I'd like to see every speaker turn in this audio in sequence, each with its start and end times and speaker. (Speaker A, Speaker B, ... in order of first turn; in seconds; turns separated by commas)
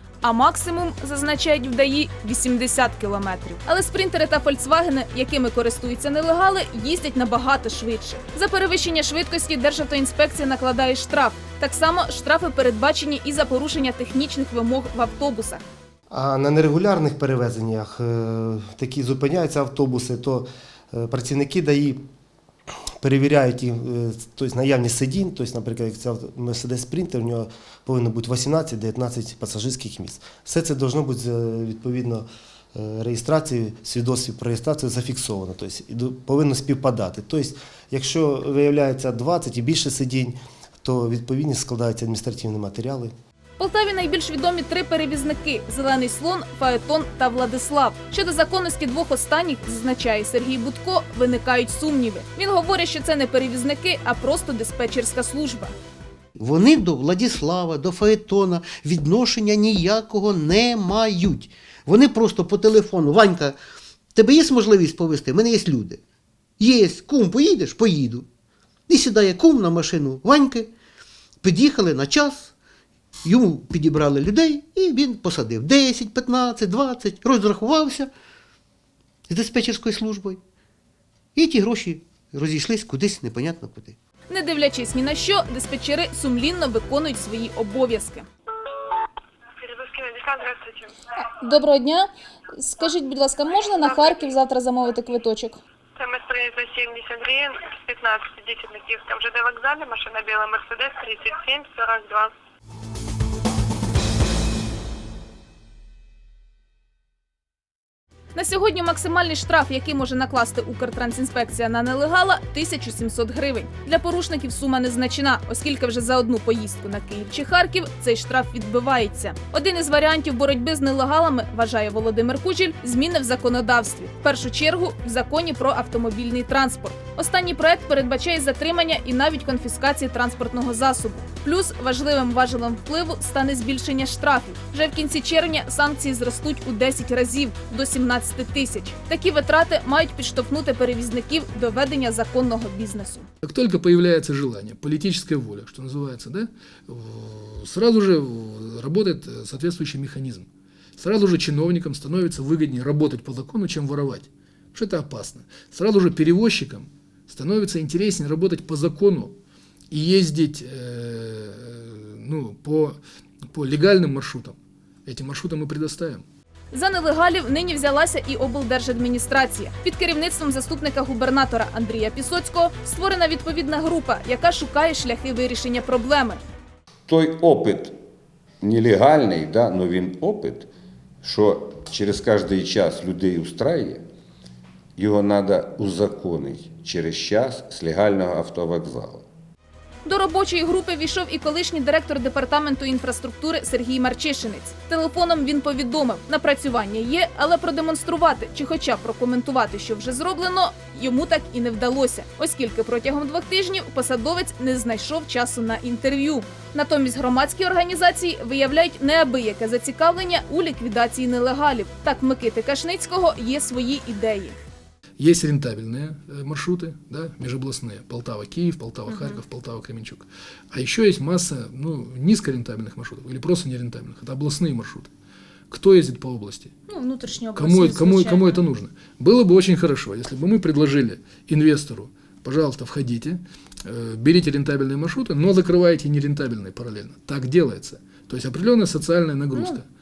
Speaker A: 0.2-15.6, Speaker B: 16.1-22.0, Speaker B: 23.0-43.1, Speaker A: 43.6-55.7, Speaker C: 56.4-63.5, Speaker C: 64.1-66.0, Speaker C: 66.6-68.3, Speaker C: 68.9-70.7, Speaker C: 71.4-72.5, Speaker C: 73.2-78.1, Speaker C: 79.3-80.4, Speaker C: 81.3-84.0, Speaker A: 84.3-88.3, Speaker D: 89.6-90.9, Speaker A: 91.2-95.6, Speaker D: 93.9-94.2, Speaker D: 96.0-102.3, Speaker A: 108.3-143.3, Speaker E: 143.4-150.5, Speaker E: 151.0-159.3, Speaker E: 159.9-163.0, Speaker E: 163.5-166.2, Speaker A: 166.7-176.4, Speaker F: 177.1-177.9, Speaker F: 178.6-180.7, Speaker F: 181.2-184.0, Speaker F: 185.0-189.2, Speaker A: 190.1-214.6, Speaker E: 215.2-225.1, Speaker A: 219.1-219.4, Speaker E: 225.7-226.7, Speaker A: 226.9-228.6, Speaker E: 227.5-239.8, Speaker A: 239.5-239.8